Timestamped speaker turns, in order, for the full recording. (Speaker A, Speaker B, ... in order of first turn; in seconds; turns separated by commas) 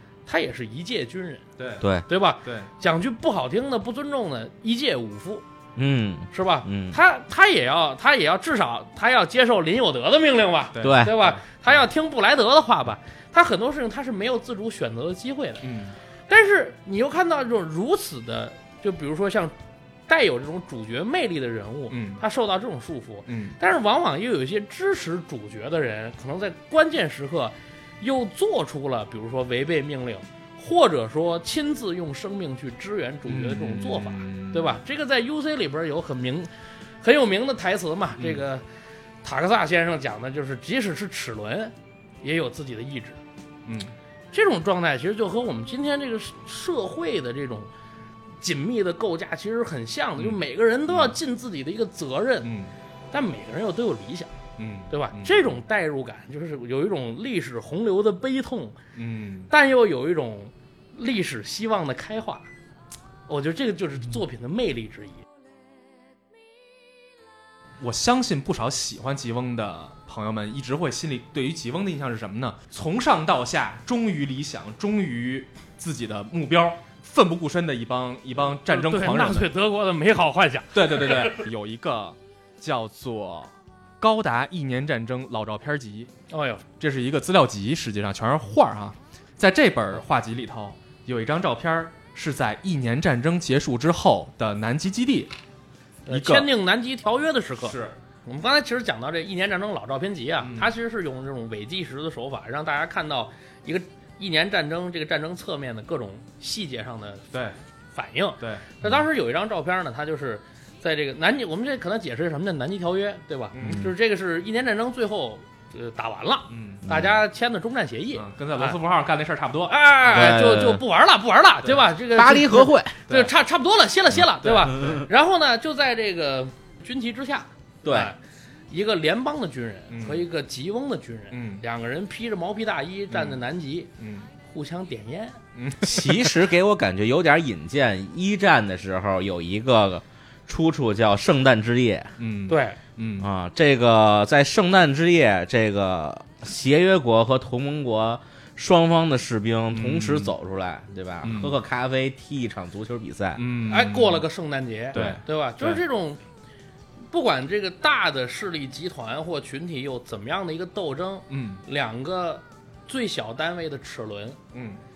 Speaker A: 0.2-1.4, Speaker B: 1.6-1.8, Speaker A: 2.1-5.4, Speaker B: 2.4-2.7, Speaker C: 5.8-7.0, Speaker A: 6.3-15.6, Speaker B: 10.7-11.4, Speaker C: 10.8-11.1, Speaker B: 15.6-15.9, Speaker A: 16.3-19.5, Speaker A: 20.1-36.5, Speaker B: 21.9-22.2, Speaker B: 23.3-23.6, Speaker B: 33.3-34.8, Speaker A: 37.0-38.6, Speaker B: 38.2-38.4, Speaker A: 39.2-43.2, Speaker B: 43.6-43.9, Speaker A: 44.3-47.7, Speaker A: 48.4-52.5, Speaker B: 50.2-51.2, Speaker B: 52.4-52.7, Speaker A: 53.1-54.3, Speaker B: 54.6-55.5, Speaker A: 54.9-58.8, Speaker B: 59.0-59.5, Speaker A: 59.5-62.5, Speaker A: 63.3-65.2, Speaker B: 67.8-79.5, Speaker A: 78.7-81.4, Speaker B: 80.7-86.1, Speaker A: 86.3-86.6, Speaker B: 86.8-95.3, Speaker A: 96.1-107.2, Speaker B: 96.1-96.5, Speaker B: 97.6-97.9, Speaker B: 100.4-100.7, Speaker A: 107.9-118.8, Speaker B: 108.4-108.7, Speaker B: 113.5-113.9, Speaker B: 116.5-116.8, Speaker C: 116.9-117.2, Speaker B: 118.1-119.8, Speaker A: 119.7-128.2, Speaker C: 120.1-120.8, Speaker C: 122.1-123.0, Speaker B: 123.1-123.3, Speaker B: 124.4-125.0, Speaker C: 127.8-128.1, Speaker A: 128.7-133.9, Speaker B: 129.9-130.2, Speaker B: 131.3-131.6, Speaker B: 133.1-133.4, Speaker B: 134.0-134.3, Speaker A: 134.5-135.4, Speaker B: 135.6-136.4, Speaker C: 135.8-142.1, Speaker B: 142.2-143.3, Speaker A: 142.5-142.8, Speaker C: 143.2-153.4, Speaker B: 149.7-150.3, Speaker B: 151.2-151.5, Speaker B: 153.3-154.2, Speaker A: 153.7-156.2, Speaker B: 154.9-155.8, Speaker A: 157.1-164.4, Speaker B: 161.3-161.6, Speaker B: 164.5-164.8